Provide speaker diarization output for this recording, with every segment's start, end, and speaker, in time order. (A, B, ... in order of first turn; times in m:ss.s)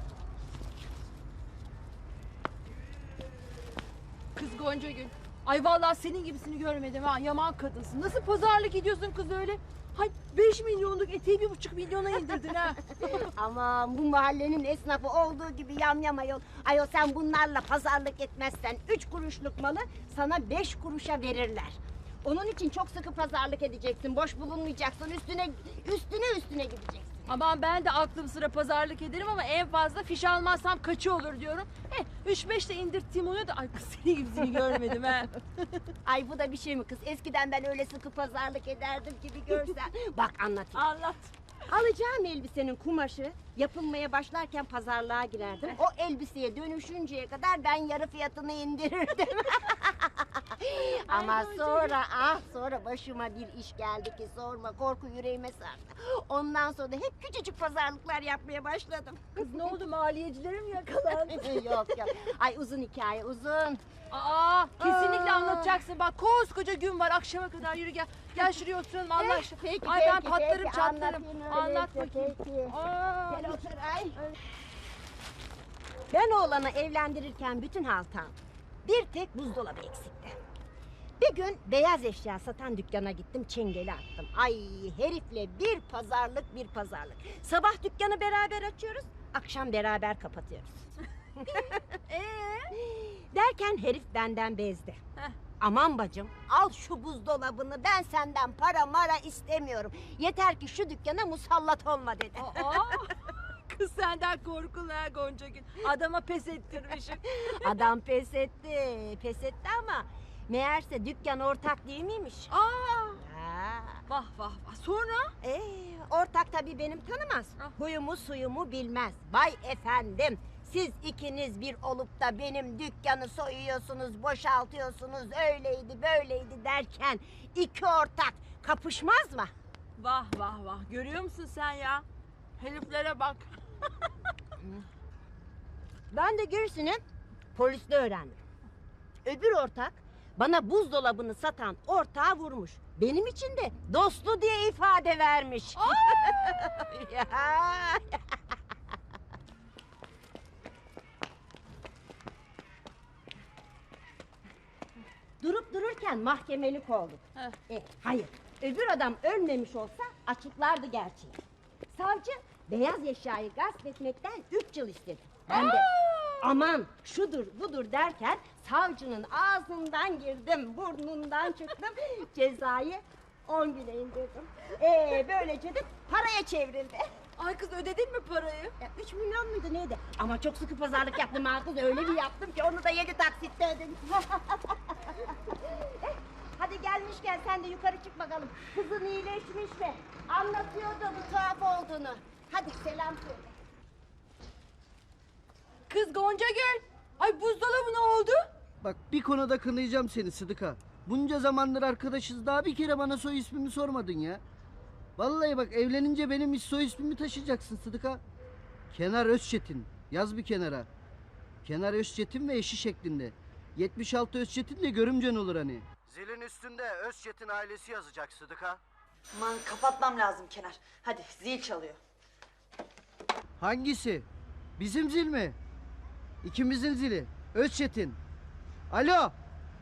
0:04.3-0:13.3 A
0:13.3-0:27.3 B
0:27.2-0:35.3 A
0:36.0-0:40.8 B
0:40.7-0:41.3 A
0:41.7-0:59.7 B
0:50.7-0:52.0 A
0:59.4-1:02.0 A
1:01.2-1:03.8 B
1:04.1-1:13.6 A
1:04.8-1:05.8 B
1:09.2-1:14.2 B
1:16.1-1:20.4 B
1:21.2-1:30.8 B
1:31.4-1:32.7 A
1:31.4-1:31.8 B
1:32.7-1:35.0 B
1:35.6-1:42.9 B
1:42.4-1:47.9 A
1:47.5-1:52.5 B
1:52.5-1:53.2 A
1:53.2-1:54.0 B
1:54.1-1:55.3 A
1:55.4-2:09.5 B
2:10.0-2:12.0 A
2:12.6-2:13.5 A
2:16.1-2:17.0 B
2:17.5-2:18.4 B
2:19.2-2:28.4 B
2:25.8-2:26.2 A
2:35.4-2:41.4 B
2:41.9-2:45.9 B
2:45.5-2:46.6 A
2:46.4-2:57.1 B
2:57.4-2:58.7 A
2:58.8-3:13.5 B
3:15.9-3:18.4 A
3:18.8-3:24.4 C
3:25.2-3:28.2 C
3:28.9-3:30.9 C
3:31.6-3:38.8 C
3:39.3-3:42.0 D
3:43.6-3:44.3 C
3:44.8-3:45.6 C
3:46.4-3:48.2 C
3:48.9-3:49.3 C